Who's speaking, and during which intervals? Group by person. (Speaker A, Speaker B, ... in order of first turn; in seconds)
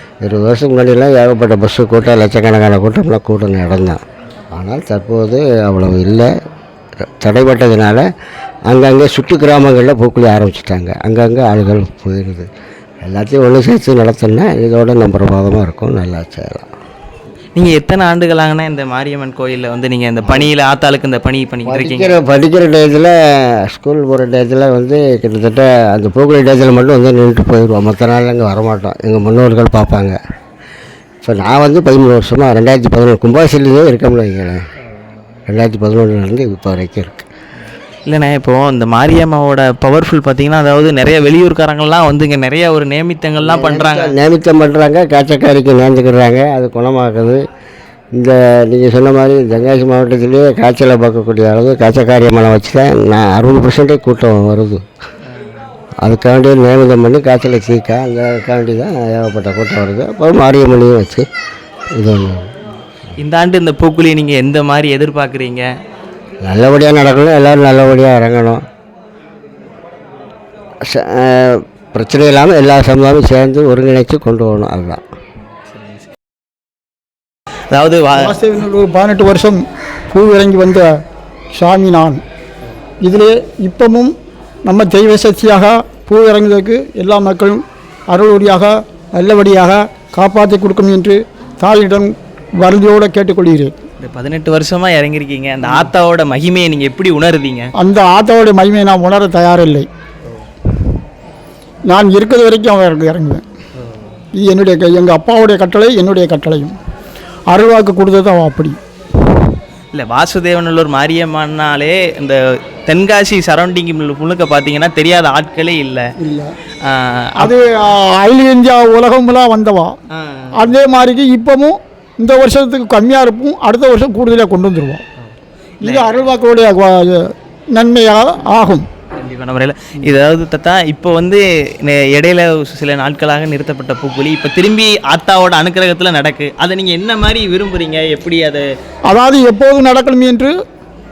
Speaker A: 0.2-4.0, 4.5-6.3, 7.0-8.1, 8.7-12.5, 13.0-16.7, 20.2-20.5, 21.6-30.2, 31.2-34.6, 35.5-37.3, 43.4-47.4, 48.2-54.8, 56.0-61.3, 61.9-62.5, 66.4-68.6, 70.8-75.0
Speaker B: 17.6-22.1, 38.1-44.2, 55.3-55.6, 63.2-65.7, 75.7-76.0, 77.7-78.4, 94.0-97.7, 109.9-116.0, 116.8-117.5, 120.2-120.8, 125.8-126.1, 129.2-138.7
Speaker C: 78.2-81.0, 81.5-82.2, 83.0-84.1, 84.7-93.7, 97.8-99.9, 101.9-103.4, 104.4-106.8, 107.5-108.8, 116.2-116.5, 117.4-119.9, 120.6-125.0, 125.8-128.9, 139.1-140.5